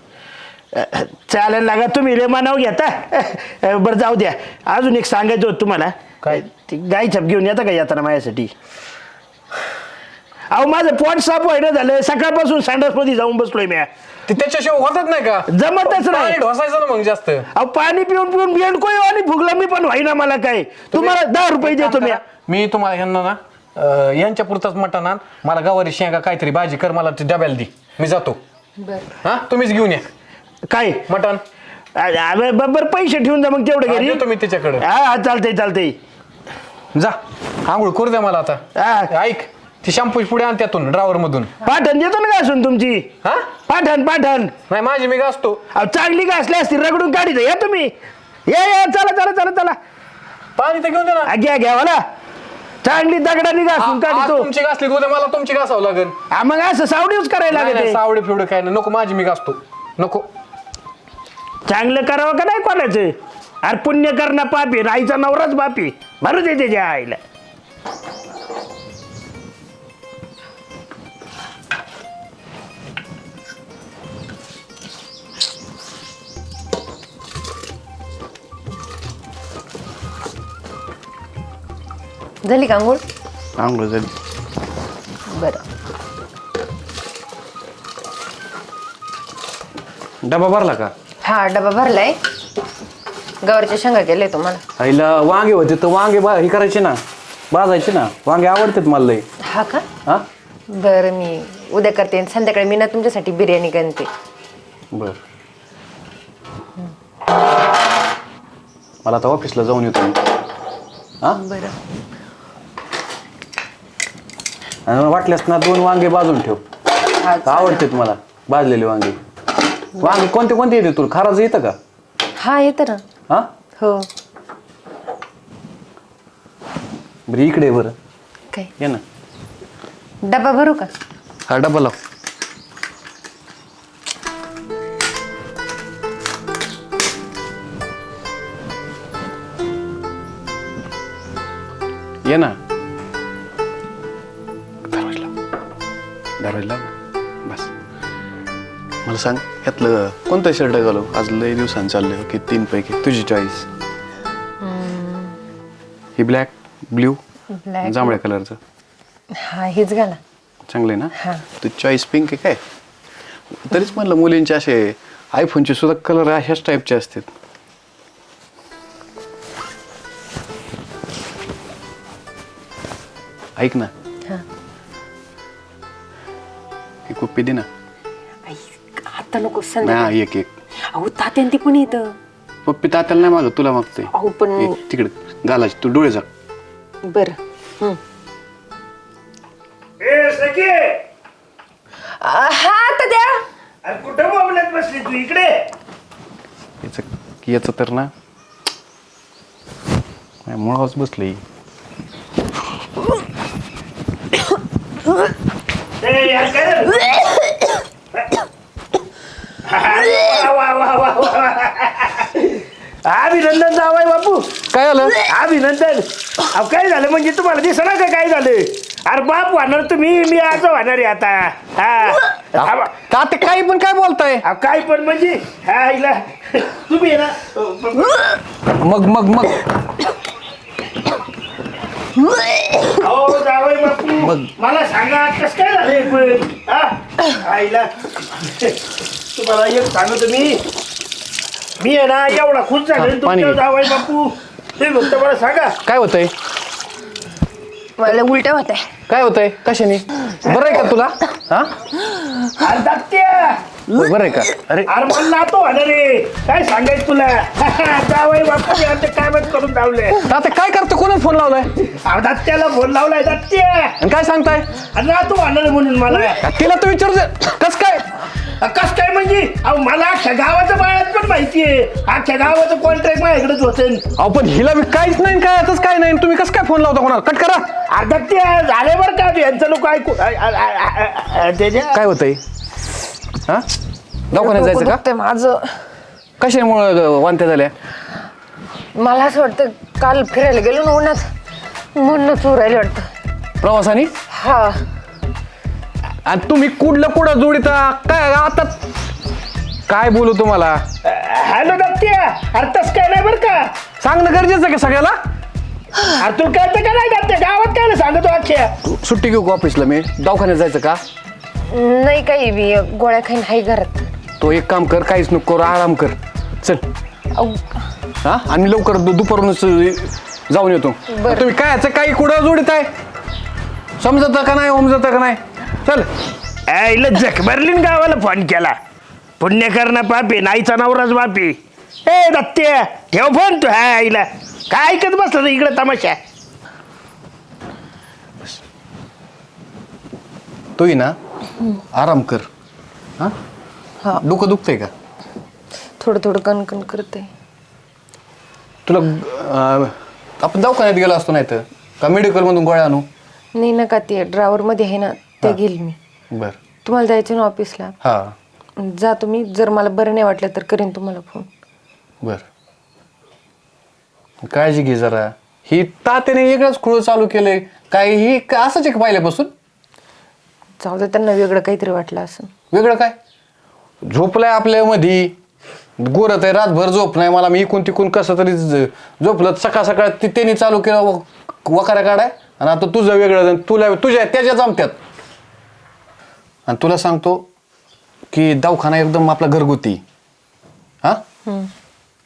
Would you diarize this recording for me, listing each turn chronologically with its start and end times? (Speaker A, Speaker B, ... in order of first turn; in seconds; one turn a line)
Speaker A: 0.7-8.5
Speaker A: 10.5-13.9
Speaker B: 14.3-17.5
Speaker A: 15.5-16.4
Speaker A: 17.5-22.2
Speaker B: 20.9-28.4
Speaker C: 28.8-29.1
Speaker B: 29.2-30.1
Speaker A: 30.7-31.1
Speaker B: 31.1-31.4
Speaker A: 31.9-34.2
Speaker B: 33.9-34.8
Speaker A: 34.8-36.0
Speaker B: 36.9-41.5
Speaker A: 38.8-39.1
Speaker A: 41.6-43.1
Speaker B: 43.2-43.5
Speaker A: 43.7-44.5
Speaker B: 44.7-45.6
Speaker A: 45.7-47.9
Speaker A: 48.5-49.8
Speaker B: 50.5-51.3
Speaker A: 51.2-52.0
Speaker A: 52.8-54.5
Speaker B: 53.8-56.1
Speaker A: 56.3-58.0
Speaker B: 57.5-60.3
Speaker A: 61.7-67.2
Speaker C: 82.4-83.0
Speaker B: 83.6-84.1
Speaker C: 85.3-85.6
Speaker B: 90.2-90.9
Speaker C: 91.2-92.2
Speaker C: 93.4-94.6
Speaker B: 94.8-99.2
Speaker C: 99.4-99.8
Speaker C: 100.7-104.1
Speaker B: 104.9-105.2
Speaker B: 109.0-110.2
Speaker C: 111.3-111.8
Speaker B: 114.8-116.6
Speaker C: 117.1-117.8
Speaker B: 117.4-119.2
Speaker B: 120.0-121.8
Speaker C: 122.4-123.0
Speaker C: 123.8-124.1
Speaker B: 127.3-127.9
Speaker C: 130.2-130.9
Speaker B: 131.5-131.9
Speaker B: 142.2-142.6
Speaker B: 144.9-145.3
Speaker B: 146.4-146.9
Speaker B: 147.4-147.7
Speaker B: 149.0-153.7
Speaker C: 154.6-155.4
Speaker B: 156.2-157.2
Speaker C: 157.5-158.2
Speaker B: 157.8-158.6
Speaker C: 159.3-160.2
Speaker B: 160.7-162.6
Speaker C: 161.2-161.4
Speaker B: 163.6-167.3
Speaker B: 173.6-173.9
Speaker B: 177.1-177.7
Speaker C: 178.5-180.1
Speaker B: 179.8-180.5
Speaker C: 180.9-182.1
Speaker B: 182.6-186.3
Speaker C: 184.1-184.8
Speaker C: 187.0-188.0
Speaker A: 190.0-191.0
Speaker C: 192.2-193.4
Speaker A: 193.8-195.6
Speaker B: 196.8-198.1
Speaker B: 200.4-201.4
Speaker A: 206.0-207.5
Speaker A: 209.7-214.5
Speaker B: 214.7-215.2
Speaker A: 215.2-222.9
Speaker B: 222.6-224.4
Speaker A: 224.4-228.4
Speaker B: 228.7-229.7
Speaker A: 232.9-238.8
Speaker B: 234.2-234.5
Speaker A: 239.3-240.6
Speaker A: 241.8-245.8
Speaker B: 243.0-243.6
Speaker B: 245.8-246.3
Speaker C: 248.0-248.8
Speaker B: 249.1-251.7
Speaker A: 250.5-250.7
Speaker A: 252.6-253.6
Speaker B: 253.9-254.9
Speaker A: 254.9-260.2
Speaker B: 260.2-261.7
Speaker A: 261.8-263.9
Speaker B: 264.0-264.8
Speaker A: 264.9-266.4
Speaker B: 266.3-268.2
Speaker A: 268.6-274.0
Speaker B: 274.2-277.7
Speaker A: 277.9-282.0
Speaker B: 281.9-282.4
Speaker B: 284.3-285.0
Speaker C: 284.3-285.8
Speaker B: 286.4-287.7
Speaker C: 288.9-291.2
Speaker C: 291.9-293.1
Speaker B: 293.6-294.1
Speaker C: 294.3-294.8
Speaker B: 296.2-298.9
Speaker B: 299.9-300.8
Speaker A: 301.0-303.7
Speaker B: 304.0-305.1
Speaker A: 306.1-308.7
Speaker B: 308.8-311.0
Speaker C: 311.7-314.1
Speaker B: 314.4-316.8
Speaker C: 317.3-317.6
Speaker B: 318.2-322.9
Speaker C: 321.1-321.5
Speaker B: 324.0-326.1
Speaker A: 326.7-328.8
Speaker A: 329.4-336.2
Speaker B: 340.8-341.1
Speaker B: 341.9-342.5
Speaker B: 344.2-344.9
Speaker C: 346.0-347.3
Speaker B: 348.9-353.1
Speaker C: 353.5-356.0
Speaker B: 356.3-356.6
Speaker C: 356.8-357.9
Speaker B: 358.0-358.3
Speaker C: 358.8-361.5
Speaker B: 364.4-369.5
Speaker C: 370.8-372.5
Speaker B: 372.7-373.1
Speaker B: 374.0-375.3
Speaker B: 376.0-384.9
Speaker B: 386.7-387.5
Speaker B: 388.3-390.0